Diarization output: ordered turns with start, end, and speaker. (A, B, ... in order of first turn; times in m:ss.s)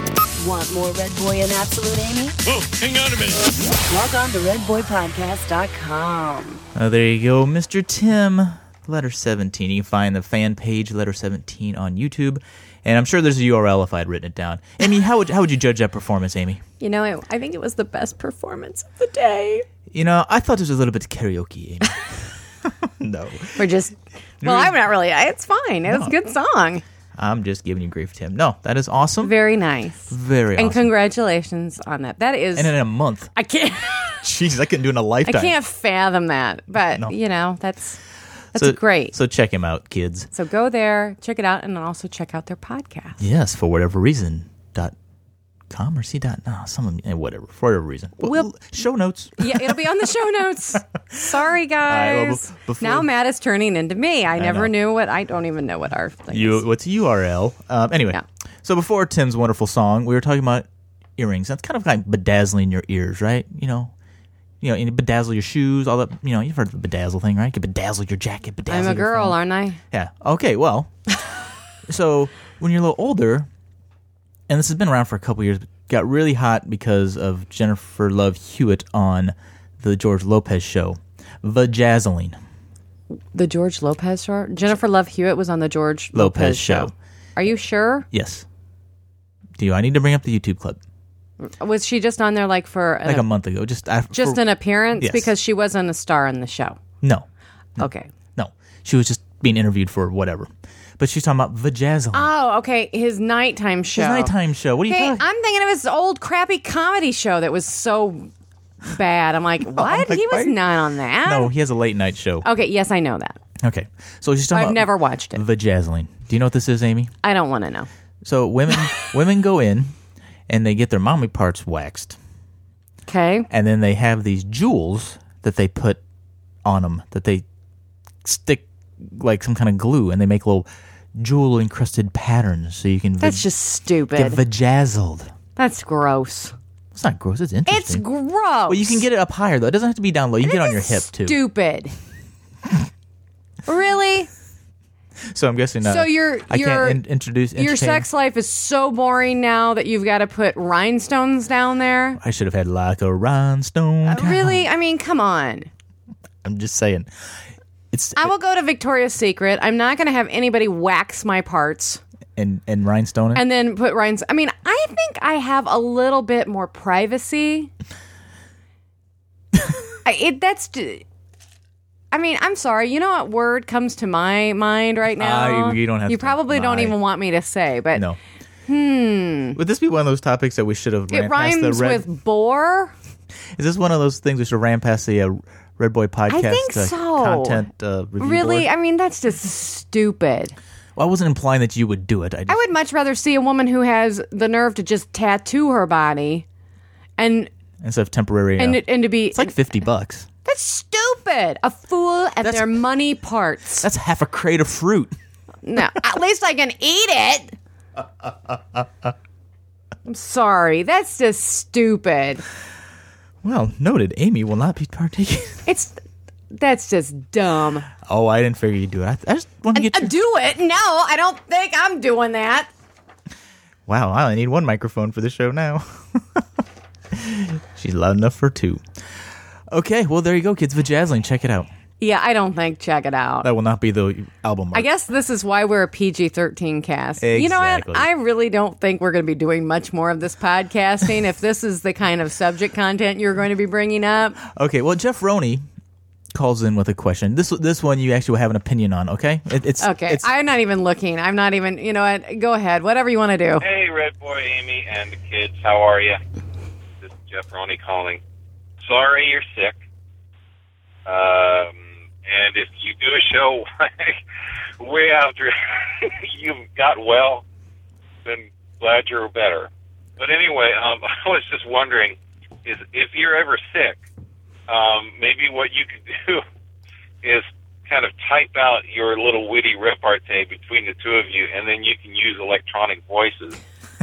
0:00.4-0:02.4 A
0:03.8-0:06.6 A
0:06.8-0:16.6 B
0:16.8-0:19.7 C
0:19.9-0:23.6 B
0:23.6-0:26.8 C
0:24.4-0:24.8 B
0:25.9-0:26.2 B
0:27.2-0:29.4 B
0:29.2-0:32.8 C
0:30.1-0:30.9 B
0:32.6-0:33.3 B
0:33.4-0:34.2 C
0:34.2-0:35.6 B
0:35.2-0:38.0 C
0:38.5-0:39.2 C
0:38.6-0:40.3 B
0:40.3-0:43.2 C
0:43.2-0:45.0 B
0:45.7-0:49.8 B
0:48.2-0:48.5 C
0:49.4-0:56.6 C
0:51.8-0:53.1 B
0:54.4-0:54.7 B
0:56.3-1:03.9 B
1:04.6-1:09.4 B
1:08.7-1:09.8 C
1:09.9-1:11.0 B
1:11.9-1:13.5 B
1:14.5-1:22.4 B
1:23.3-1:28.1 C
1:26.1-1:26.9 B
1:28.1-1:28.4 B
1:29.6-1:30.8 B
1:31.4-1:33.3 C
1:33.0-1:34.4 B
1:34.1-1:36.8 C
1:35.0-1:35.3 B
1:37.8-1:38.1 C
1:37.8-1:42.3 B
1:42.1-1:44.3 C
1:43.9-1:45.2 B
1:44.9-1:48.3 C
1:48.9-1:51.5 C
1:49.7-1:50.6 B
1:51.2-1:52.5 B
1:52.4-1:53.4 C
1:53.6-1:57.1 B
1:54.5-1:55.4 C
1:57.2-1:57.9 C
1:58.2-1:59.9 B
2:00.5-2:02.2 B
2:03.1-2:03.5 C
2:03.5-2:06.0 B
2:06.6-2:07.4 B
2:08.2-2:13.4 B
2:13.2-2:14.4 C
2:14.1-2:15.3 B
2:15.6-2:16.5 C
2:16.9-2:18.0 B
2:17.7-2:19.0 C
2:18.7-2:21.4 B
2:20.4-2:21.9 C
2:23.7-2:24.3 C
2:25.3-2:28.1 B
2:25.8-2:27.0 C
2:27.6-2:32.2 C
2:32.2-2:34.6 B
2:34.0-2:35.7 C
2:36.4-2:37.1 B
2:37.9-2:38.3 B
2:38.2-2:42.0 C
2:42.4-2:43.4 B
2:43.3-2:47.7 C
2:50.0-2:51.0 C
2:52.1-2:58.0 C
2:55.2-2:57.0 B
2:58.7-2:59.6 C
2:59.6-3:02.1 B
3:01.1-3:02.9 C
3:03.6-3:08.7 B
3:06.3-3:07.7 C
3:08.2-3:10.6 C
3:11.0-3:12.7 B
3:12.5-3:16.5 C
3:17.2-3:17.5 C
3:17.8-3:20.3 B
3:18.6-3:19.6 C
3:20.4-3:23.9 C
3:22.4-3:22.8 B
3:23.8-3:25.2 B
3:25.6-3:27.6 C
3:30.0-3:32.4 C
3:33.4-3:35.6 B
3:35.7-3:36.0 C
3:36.5-3:37.9 C
3:38.1-3:40.1 B
3:39.7-3:42.7 C
3:43.9-3:46.4 B
3:47.1-3:48.8 B
3:49.7-3:51.7 B
3:52.0-3:53.5 C
3:53.4-3:54.9 B
3:54.7-4:04.4 C
3:57.2-3:58.1 B
4:04.4-4:05.6 B
4:06.3-4:10.3 B
4:09.8-4:13.6 C
4:13.6-4:16.2 D
4:17.0-4:18.2 D
4:18.8-4:19.8 D
4:21.1-4:24.2 D
4:24.8-4:27.4 D
4:28.2-4:34.0 D
4:34.7-4:36.4 D
4:37.2-4:43.6 D